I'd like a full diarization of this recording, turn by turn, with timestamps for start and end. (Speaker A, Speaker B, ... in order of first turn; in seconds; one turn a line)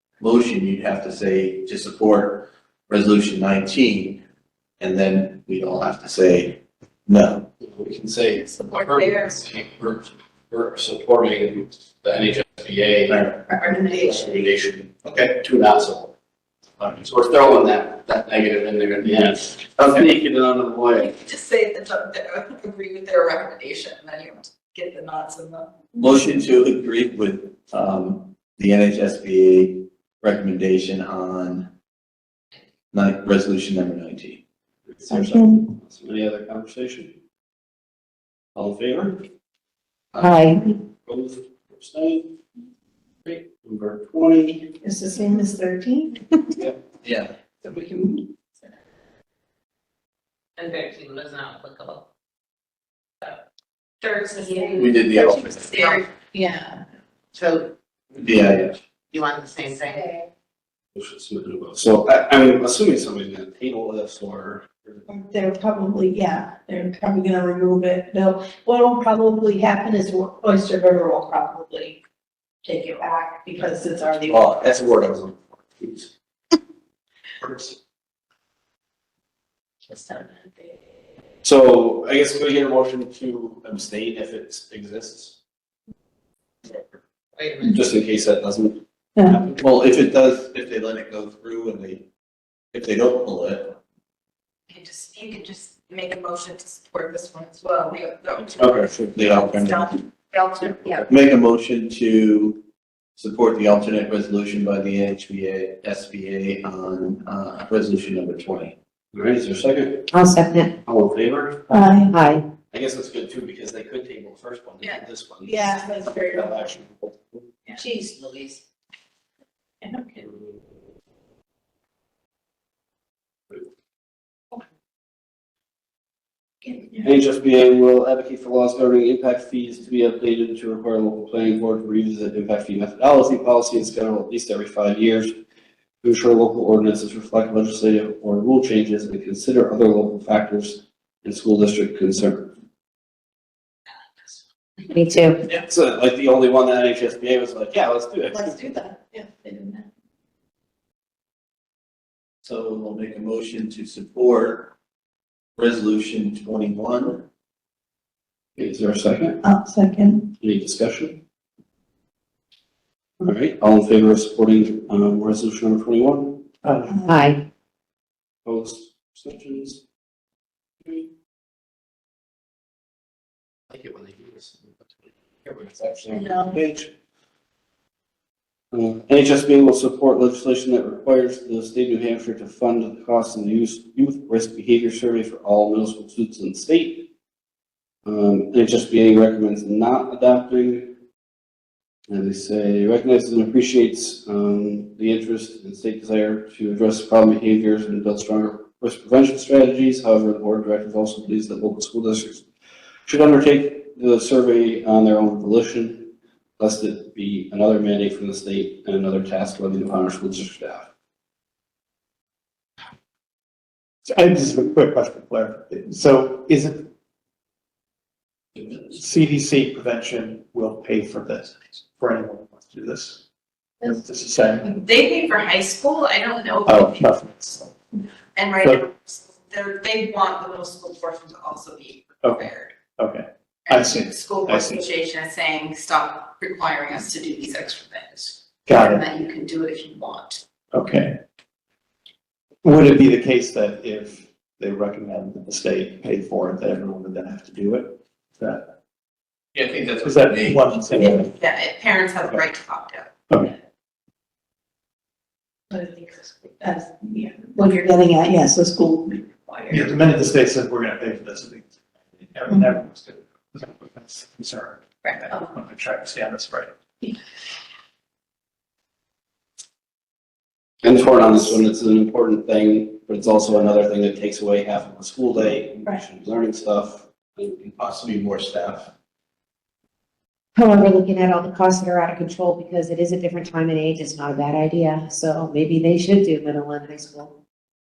Speaker A: 0.2-4.2
Speaker A: 4.8-7.5
Speaker B: 7.6-16.1
Speaker C: 8.5-9.4
Speaker D: 13.5-13.9
Speaker B: 17.0-21.1
Speaker C: 21.0-25.8
Speaker A: 26.0-31.7
Speaker A: 32.9-34.4
Speaker B: 34.9-37.1
Speaker B: 38.5-39.2
Speaker E: 40.2-40.6
Speaker B: 41.0-42.3
Speaker B: 43.2-44.7
Speaker D: 44.8-46.2
Speaker A: 47.0-47.3
Speaker D: 47.6-48.1
Speaker F: 50.6-52.0
Speaker C: 54.0-56.0
Speaker F: 54.3-54.7
Speaker A: 54.7-55.9
Speaker D: 56.3-56.8
Speaker F: 57.3-57.7
Speaker A: 58.1-58.8
Speaker F: 59.1-60.2
Speaker B: 61.0-65.0
Speaker D: 65.1-72.0
Speaker D: 72.6-74.4
Speaker A: 74.1-76.0
Speaker B: 81.4-85.4
Speaker F: 87.3-87.8
Speaker B: 87.6-89.6
Speaker A: 89.6-92.0
Speaker A: 92.7-93.8
Speaker C: 94.7-101.0
Speaker B: 98.6-99.4
Speaker A: 99.1-99.9
Speaker A: 101.1-102.6
Speaker A: 103.2-108.8
Speaker B: 109.1-110.1
Speaker E: 110.1-110.7
Speaker B: 110.8-111.8
Speaker D: 111.7-112.1
Speaker E: 112.1-112.5
Speaker B: 112.7-117.4
Speaker D: 115.5-116.2
Speaker F: 117.8-118.6
Speaker D: 119.8-120.2
Speaker D: 126.7-127.0
Speaker B: 127.0-135.3
Speaker B: 136.0-142.6
Speaker E: 144.9-145.4
Speaker B: 145.5-148.6
Speaker D: 149.0-149.4
Speaker A: 152.4-154.7
Speaker A: 155.6-157.2
Speaker B: 158.6-159.4
Speaker D: 159.5-160.2
Speaker B: 160.4-161.2
Speaker B: 163.2-166.4
Speaker G: 166.6-167.0
Speaker E: 167.0-167.4
Speaker B: 168.4-169.8
Speaker B: 173.7-176.9
Speaker B: 178.7-187.1
Speaker B: 188.1-190.9
Speaker B: 192.1-202.5
Speaker B: 203.1-210.9
Speaker G: 214.1-216.9
Speaker G: 218.7-223.2
Speaker G: 223.8-224.8
Speaker C: 224.6-227.0
Speaker G: 226.6-227.7
Speaker C: 228.3-232.7
Speaker G: 232.2-234.8
Speaker C: 233.7-240.4
Speaker G: 238.7-239.0
Speaker G: 240.7-241.2
Speaker G: 242.6-248.7
Speaker A: 249.5-250.7
Speaker G: 250.0-251.3
Speaker C: 250.9-253.1
Speaker D: 255.7-259.8
Speaker G: 259.7-261.7
Speaker G: 262.3-266.7
Speaker B: 270.8-277.7
Speaker A: 277.8-278.9
Speaker E: 280.6-287.3